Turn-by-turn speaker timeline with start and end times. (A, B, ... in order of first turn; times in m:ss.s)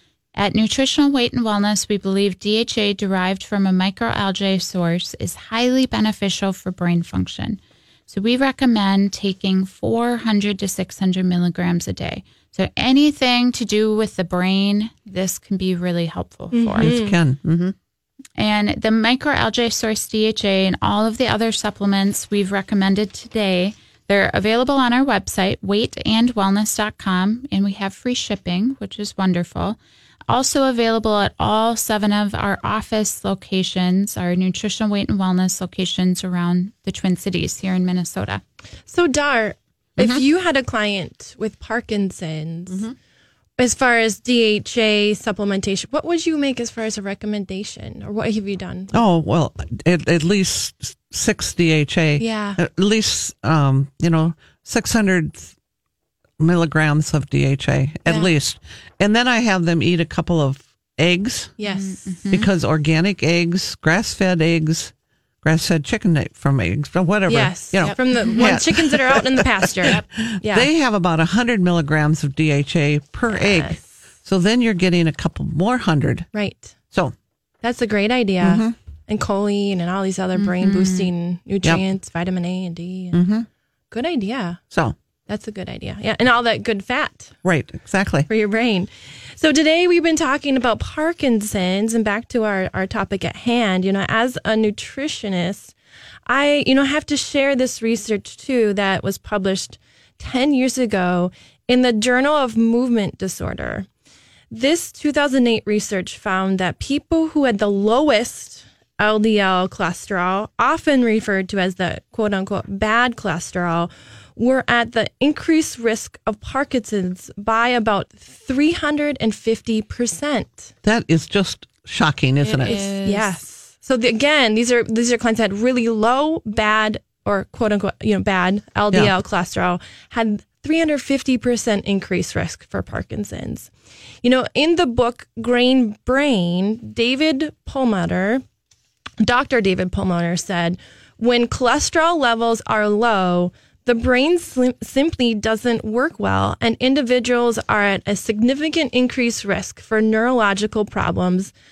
0:00.4-0:16.9 A
0:16.5-0:17.2 B
0:16.8-0:17.8 C
0:18.4-0:29.8 A
0:30.3-0:38.4 A
0:38.9-0:42.8 B
0:42.7-0:43.0 C
0:43.6-0:49.0 B
0:48.9-0:55.5 C
0:52.2-0:52.6 B
0:56.4-1:01.5 C
0:58.1-0:58.3 B
1:01.6-1:02.0 B
1:01.7-1:02.5 A
1:02.3-1:16.3 C
1:07.3-1:10.7 B
1:07.8-1:08.5 A
1:13.3-1:13.9 B
1:16.3-1:16.7 B
1:17.6-1:23.3 B
1:18.4-1:18.8 C
1:20.4-1:21.1 A
1:23.1-1:23.5 C
1:23.9-1:24.6 B
1:25.3-1:27.4 B
1:27.4-1:28.3 C
1:28.3-1:35.7 B
1:36.3-1:43.9 B
1:44.5-2:00.7 B
2:00.8-2:02.8 C
2:02.4-2:03.4 A
2:02.6-2:13.7 B
2:14.2-2:18.4 B
2:19.2-2:31.5 B